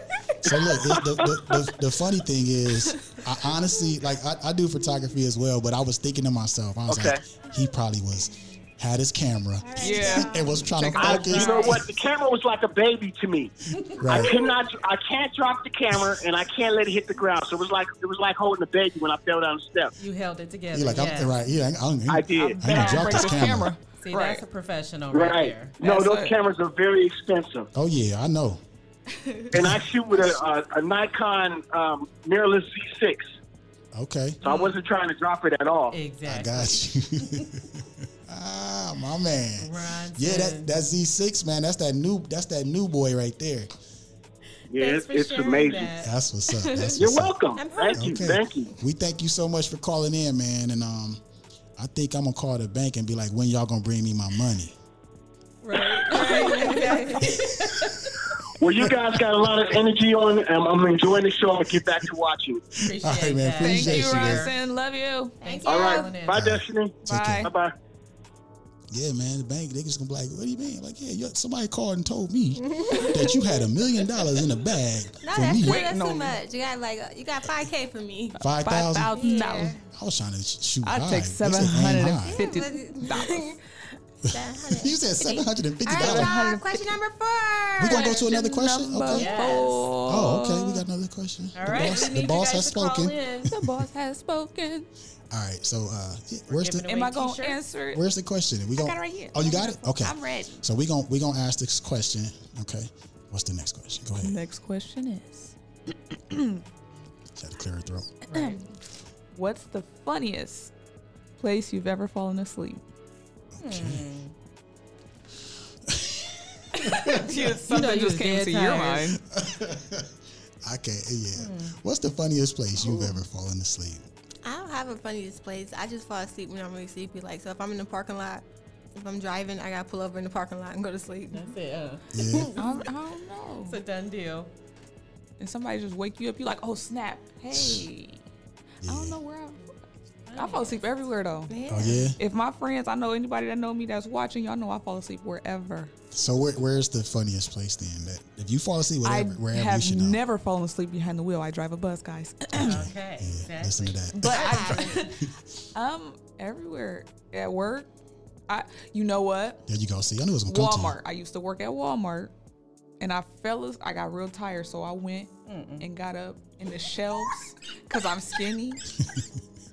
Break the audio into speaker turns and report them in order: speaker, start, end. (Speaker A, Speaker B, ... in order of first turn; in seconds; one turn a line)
Speaker A: 0.4-11.8
Speaker B: 6.9-7.2
Speaker C: 9.7-10.5
Speaker D: 9.8-10.2
Speaker E: 9.8-11.7
Speaker B: 11.0-13.5
Speaker D: 11.0-11.8
Speaker D: 13.8-14.1
Speaker A: 14.0-14.3
Speaker B: 14.1-19.9
Speaker D: 20.0-21.4
Speaker A: 20.7-23.7
Speaker B: 22.1-22.6
Speaker E: 22.4-24.4
Speaker D: 24.0-25.8
Speaker B: 25.1-27.7
Speaker E: 25.8-26.4
Speaker A: 27.7-28.6
Speaker B: 29.5-33.4
Speaker A: 33.9-34.4
Speaker B: 34.4-36.0
Speaker E: 34.5-34.7
Speaker D: 35.9-37.5
Speaker A: 36.2-43.7
Speaker D: 39.6-40.8
Speaker B: 44.7-45.9
Speaker D: 44.7-47.0
Speaker A: 46.0-47.3
Speaker B: 47.0-48.7
Speaker C: 47.6-48.1
Speaker A: 48.0-51.2
Speaker A: 51.8-54.8
Speaker D: 55.6-58.1
Speaker C: 56.1-56.9
Speaker E: 56.2-56.8
Speaker B: 58.6-62.6
Speaker D: 62.8-64.5
Speaker A: 62.9-64.5
Speaker E: 63.6-65.4
Speaker C: 65.4-66.1
Speaker D: 65.4-66.4
Speaker B: 65.7-67.7
Speaker A: 66.3-67.5
Speaker E: 67.0-67.5
Speaker A: 68.9-75.9
Speaker C: 72.7-73.6
Speaker C: 75.2-78.4
Speaker E: 75.5-76.4
Speaker E: 78.3-79.8
Speaker A: 78.4-79.1
Speaker C: 79.2-79.8
Speaker D: 79.2-79.7
Speaker A: 79.9-82.4
Speaker E: 80.8-83.6
Speaker C: 82.2-83.6
Speaker C: 84.2-88.3
Speaker A: 84.3-86.4
Speaker E: 85.9-86.8
Speaker A: 87.8-89.3
Speaker E: 87.8-90.8
Speaker D: 89.1-89.9
Speaker A: 90.1-93.5
Speaker D: 91.5-93.6
Speaker E: 93.5-94.9
Speaker A: 95.3-96.9
Speaker D: 96.5-97.6
Speaker E: 96.9-98.0
Speaker A: 97.9-104.4
Speaker C: 98.9-100.5
Speaker E: 104.2-105.5
Speaker E: 106.3-106.6
Speaker A: 107.3-108.1
Speaker E: 108.3-108.6
Speaker D: 108.3-108.6
Speaker E: 109.3-110.7
Speaker E: 111.4-112.8
Speaker A: 113.5-114.0
Speaker D: 113.6-114.3
Speaker A: 115.9-117.4
Speaker E: 116.8-119.2
Speaker D: 117.7-119.1
Speaker A: 119.3-124.1
Speaker D: 121.4-121.8
Speaker C: 124.4-131.5
Speaker D: 131.3-132.5
Speaker A: 132.1-132.6
Speaker E: 132.6-133.8
Speaker D: 133.7-134.5
Speaker E: 135.4-138.2
Speaker A: 137.5-137.9
Speaker A: 138.8-139.2
Speaker E: 138.8-139.8
Speaker D: 140.3-140.8
Speaker E: 140.3-141.6
Speaker C: 141.5-142.1
Speaker A: 141.7-142.2
Speaker E: 142.2-145.9
Speaker A: 146.1-150.2
Speaker E: 149.0-152.8
Speaker A: 152.6-154.8
Speaker D: 152.6-154.8
Speaker E: 154.2-155.2
Speaker C: 154.3-155.1
Speaker E: 155.8-157.9
Speaker E: 158.5-159.6
Speaker A: 159.7-161.0
Speaker E: 160.5-162.3
Speaker E: 163.0-168.8
Speaker D: 165.5-165.9